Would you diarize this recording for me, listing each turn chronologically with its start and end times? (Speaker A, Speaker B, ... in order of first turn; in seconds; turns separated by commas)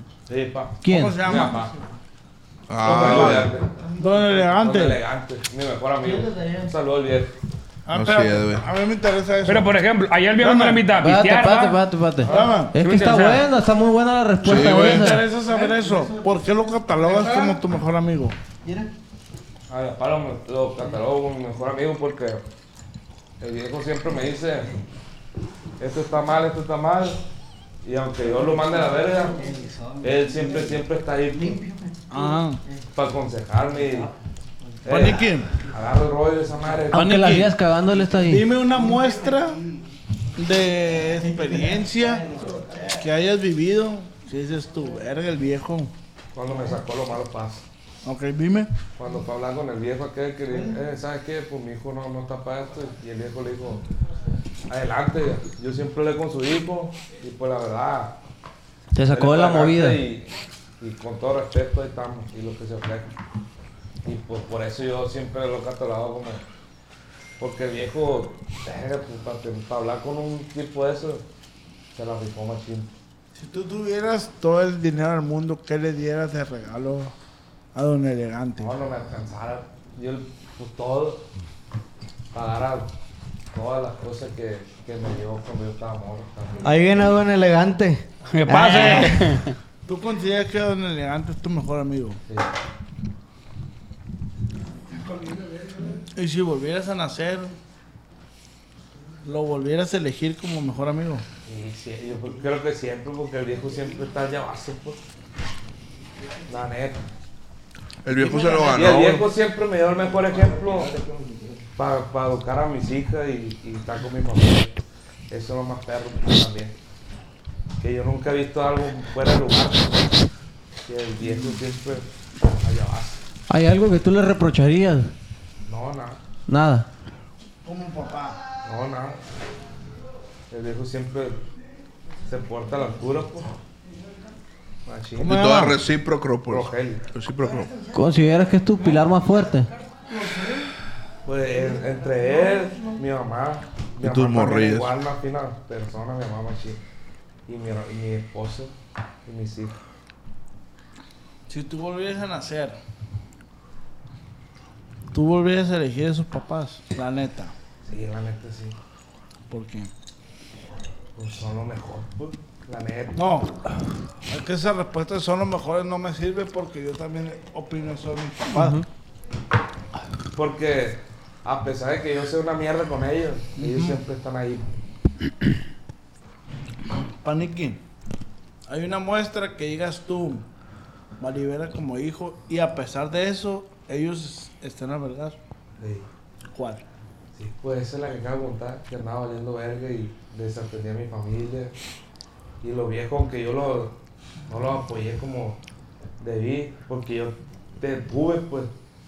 Speaker A: 0.3-1.7, Speaker B: 0.8-1.3, Speaker C: 0.9-1.6, Speaker D: 2.7-3.5, Speaker A: 2.8-3.7, Speaker C: 2.9-5.0, Speaker A: 4.3-7.3, Speaker E: 6.0-6.6, Speaker C: 7.9-9.8, Speaker D: 7.9-8.6, Speaker F: 9.4-11.8, Speaker C: 10.4-10.9, Speaker B: 11.0-15.3, Speaker A: 12.2-12.6, Speaker C: 12.3-12.8, Speaker F: 12.8-13.5, Speaker D: 14.4-15.1, Speaker C: 14.5-18.4, Speaker E: 18.6-18.9, Speaker A: 19.7-22.4, Speaker A: 23.4-24.7, Speaker A: 25.8-27.2, Speaker A: 27.8-29.4, Speaker A: 30.0-31.6, Speaker C: 32.1-32.6, Speaker A: 32.9-34.1, Speaker A: 34.8-37.1, Speaker C: 34.9-35.5, Speaker B: 36.9-38.5, Speaker C: 37.0-37.5, Speaker C: 38.2-39.6, Speaker C: 40.4-45.9, Speaker A: 46.3-47.6, Speaker C: 48.0-48.7, Speaker A: 49.0-53.8, Speaker A: 54.7-58.1, Speaker B: 58.9-60.0, Speaker A: 59.1-63.1, Speaker A: 64.0-66.4, Speaker A: 67.4-71.2, Speaker A: 71.9-72.9, Speaker C: 73.3-77.1, Speaker C: 77.7-78.7, Speaker A: 78.6-81.2, Speaker A: 82.3-82.9, Speaker A: 83.5-86.8, Speaker E: 86.6-89.2, Speaker F: 88.3-89.5, Speaker C: 89.8-92.2, Speaker C: 96.0-97.5, Speaker C: 99.2-101.2, Speaker A: 101.5-105.0, Speaker A: 106.5-107.0, Speaker D: 108.0-109.2, Speaker C: 108.2-109.0, Speaker A: 108.7-110.9, Speaker C: 110.1-111.6, Speaker A: 111.8-114.8, Speaker A: 115.3-116.7, Speaker A: 117.8-120.0, Speaker A: 120.9-123.2, Speaker C: 121.2-121.5, Speaker B: 123.5-125.1, Speaker A: 125.7-126.2, Speaker B: 126.5-126.9, Speaker C: 127.6-128.4, Speaker A: 128.6-129.2, Speaker A: 130.5-131.4, Speaker A: 132.3-133.5, Speaker A: 134.8-135.7, Speaker D: 135.2-137.7, Speaker A: 136.5-137.0, Speaker B: 137.9-139.7, Speaker A: 141.2-146.8, Speaker D: 144.0-144.9, Speaker A: 147.5-148.7, Speaker A: 149.2-149.8, Speaker C: 151.5-152.8, Speaker C: 155.1-157.5, Speaker A: 157.8-158.8, Speaker C: 159.5-159.9, Speaker A: 161.2-163.2, Speaker C: 163.2-163.5, Speaker C: 164.3-168.8, Speaker B: 168.5-168.8, Speaker A: 170.3-174.7, Speaker C: 173.6-174.0, Speaker C: 177.2-177.8, Speaker C: 178.7-180.4, Speaker C: 181.2-185.4, Speaker A: 185.8-186.1, Speaker C: 186.5-186.8, Speaker A: 187.3-191.7, Speaker A: 192.6-193.9, Speaker A: 194.5-195.6, Speaker A: 196.2-198.7